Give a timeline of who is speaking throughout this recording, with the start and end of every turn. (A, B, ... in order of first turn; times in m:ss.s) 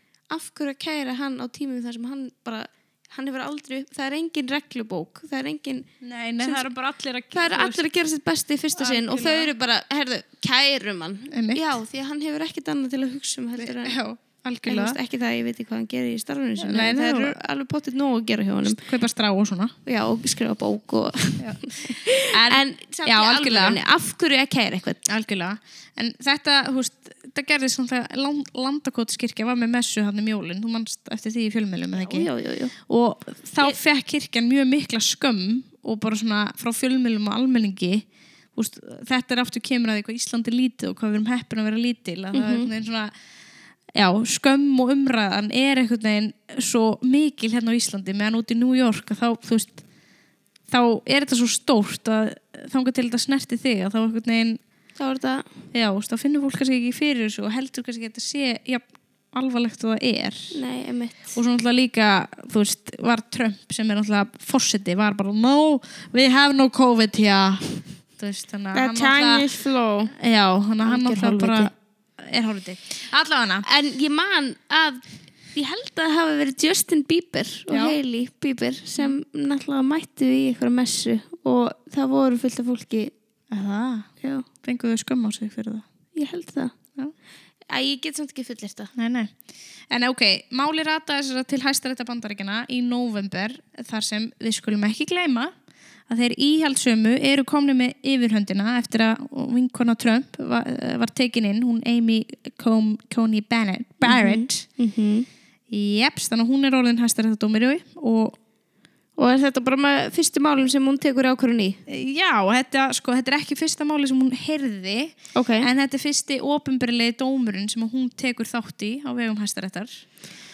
0:00.3-0:05.9 A
0:06.0-0:07.8 B
0:07.3-0:14.0 A
0:08.7-0:09.5 B
0:11.3-0:11.8 B
0:13.6-0:15.0 B
0:14.6-0:18.8 A
0:16.6-0:17.4 B
0:18.6-0:19.7 B
0:19.8-0:25.0 A
0:21.4-0:23.8 B
0:25.0-0:32.3 B
0:31.9-0:32.7 A
0:32.9-0:43.1 B
0:42.3-0:42.7 A
0:43.9-0:49.8 B
0:50.7-0:54.6 B
0:55.0-0:55.5 A
0:55.7-1:00.5 B
1:00.5-1:01.4 A
1:01.4-1:09.5 B
1:08.7-1:10.1 A
1:10.1-1:13.6 B
1:10.8-1:11.7 A
1:13.6-1:15.0 A
1:15.5-1:23.1 A
1:17.7-1:18.0 B
1:23.5-1:24.1 B
1:24.2-1:24.4 A
1:24.6-1:25.8 B
1:26.1-1:26.7 A
1:27.7-1:28.9 A
1:28.9-1:29.4 B
1:29.9-1:35.5 B
1:36.1-1:44.6 B
1:44.0-1:45.3 A
1:45.7-1:48.4 B
1:49.2-1:51.8 A
1:51.9-2:00.0 B
1:55.3-1:55.7 A